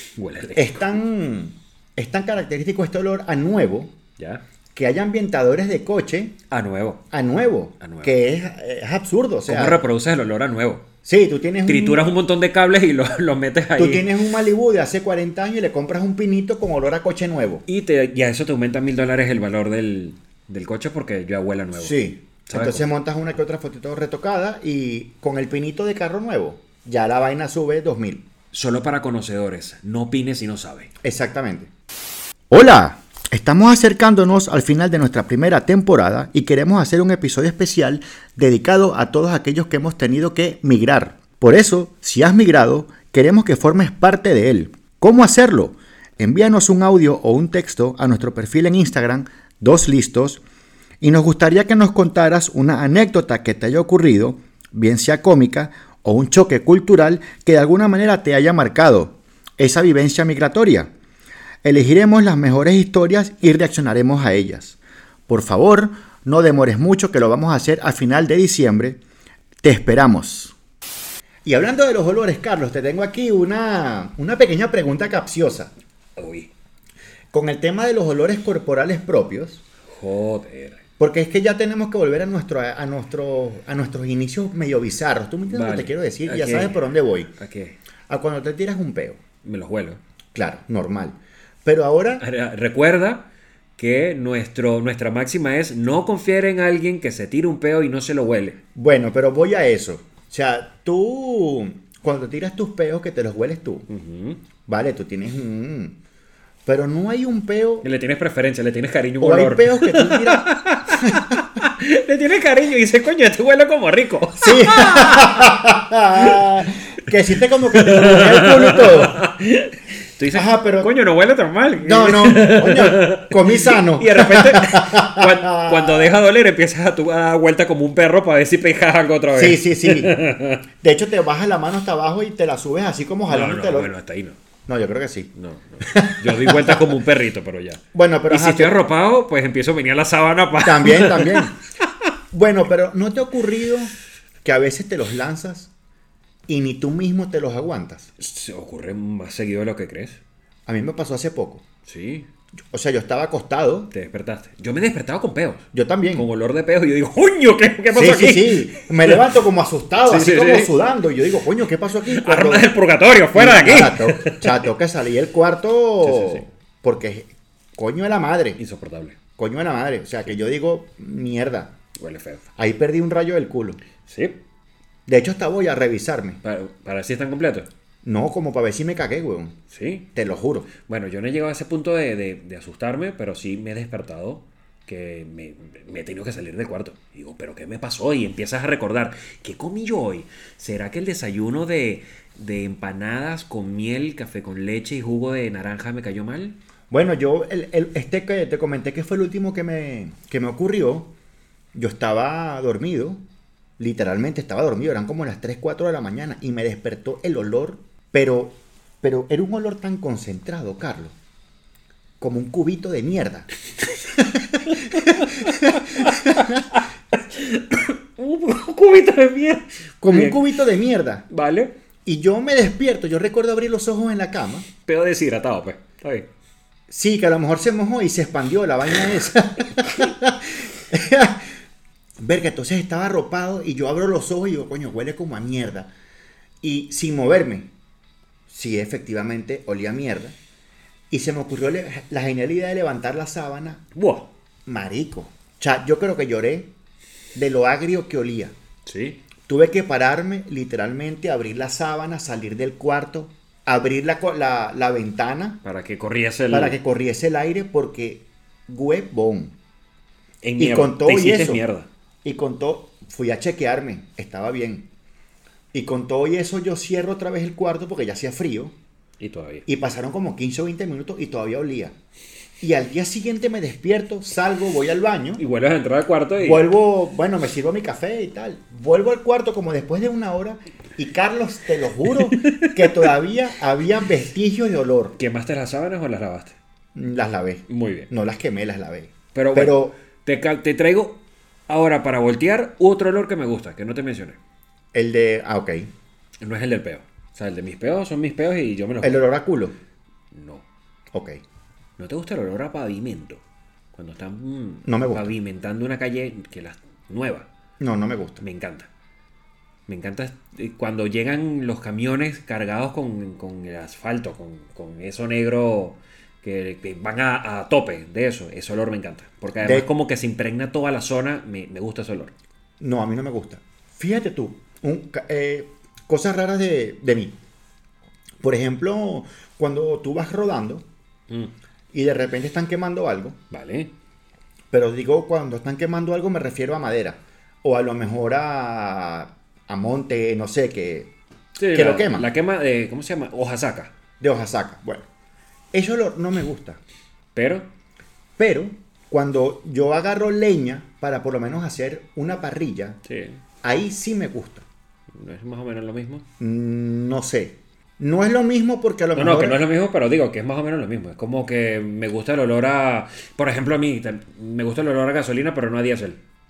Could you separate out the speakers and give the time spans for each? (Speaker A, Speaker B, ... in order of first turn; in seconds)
Speaker A: 0.2-0.8, 6.5-7.0, 7.8-8.2, 9.5-10.8, 11.7-14.1, 17.7-22.9, 28.5-30.9, 76.2-76.5, 79.9-80.8, 85.5-86.8, 87.3-87.8, 89.4-90.0, 92.2-93.3, 93.8-98.6, 103.9-104.4, 107.8-115.6, 116.1-116.4, 117.7-130.6, 133.3-134.4, 135.3-141.6, 148.2-150.2, 151.8-152.3, 153.9-159.3, 160.1-160.7, 162.1-164.7, 166.0-166.5, 168.6-169.2, 172.0-172.4, 174.0-174.4, 176.4-177.7, 179.7-180.1, 180.8-196.6, 214.8-220.4, 221.3-221.7, 224.9-226.3, 243.9-244.3, 248.8-249.2, 255.6-256.8, 260.4-261.9, 269.2-269.7, 275.4-276.7, 282.3-283.1, 285.2-286.6, 287.7-288.1, 289.3-294.4, 296.4-299.3, 300.3-300.6, 302.0-303.4, 303.9-307.5, 308.4-308.9, 309.9-322.3, 333.5-333.9, 341.6-343.9, 347.4-347.7, 353.1-353.4, 355.1-356.2, 359.1-366.2
Speaker B: 0.6-3.9, 4.7-6.4, 7.1-9.8, 11.1-12.1, 13.8-17.6, 21.8-28.3, 31.0-31.7, 32.5-50.4, 51.0-60.9, 61.6-69.0, 69.6-70.5, 71.5-75.7, 77.3-79.6, 81.0-87.3, 88.1-89.2, 90.3-92.2, 98.8-103.9, 104.7-106.0, 106.7-107.9, 109.2-111.4, 114.4-119.2, 120.3-120.9, 121.8-126.1, 129.3-130.2, 130.8-133.9, 134.7-135.3, 135.8-137.0, 137.9-138.8, 140.6-141.5, 142.3-143.9, 144.4-145.7, 146.5-148.1, 150.7-151.6, 152.7-153.9, 155.7-156.3, 157.9-162.7, 163.3-168.6, 169.4-171.7, 172.6-173.8, 175.1-176.4, 178.0-179.6, 180.2-180.7, 196.9-201.1, 201.7-203.2, 203.8-211.1, 212.2-213.5, 214.1-216.7, 220.0-221.3, 222.1-224.7, 226.9-231.5, 232.2-235.9, 236.6-237.7, 238.5-240.4, 241.1-243.8, 244.7-246.7, 247.3-248.5, 249.5-255.6, 256.5-259.5, 260.6-261.6, 262.2-264.9, 265.7-268.8, 269.7-271.9, 272.6-275.4, 276.4-285.1, 286.9-290.0, 294.9-295.9, 299.0-299.8, 301.1-301.4, 304.9-305.3, 307.8-308.4, 319.6-319.9, 322.8-327.4, 328.4-330.9, 331.9-333.4, 334.7-341.1, 341.7-342.3, 344.2-345.1, 345.7-346.8, 348.4-353.0, 353.6-354.6, 356.4-359.6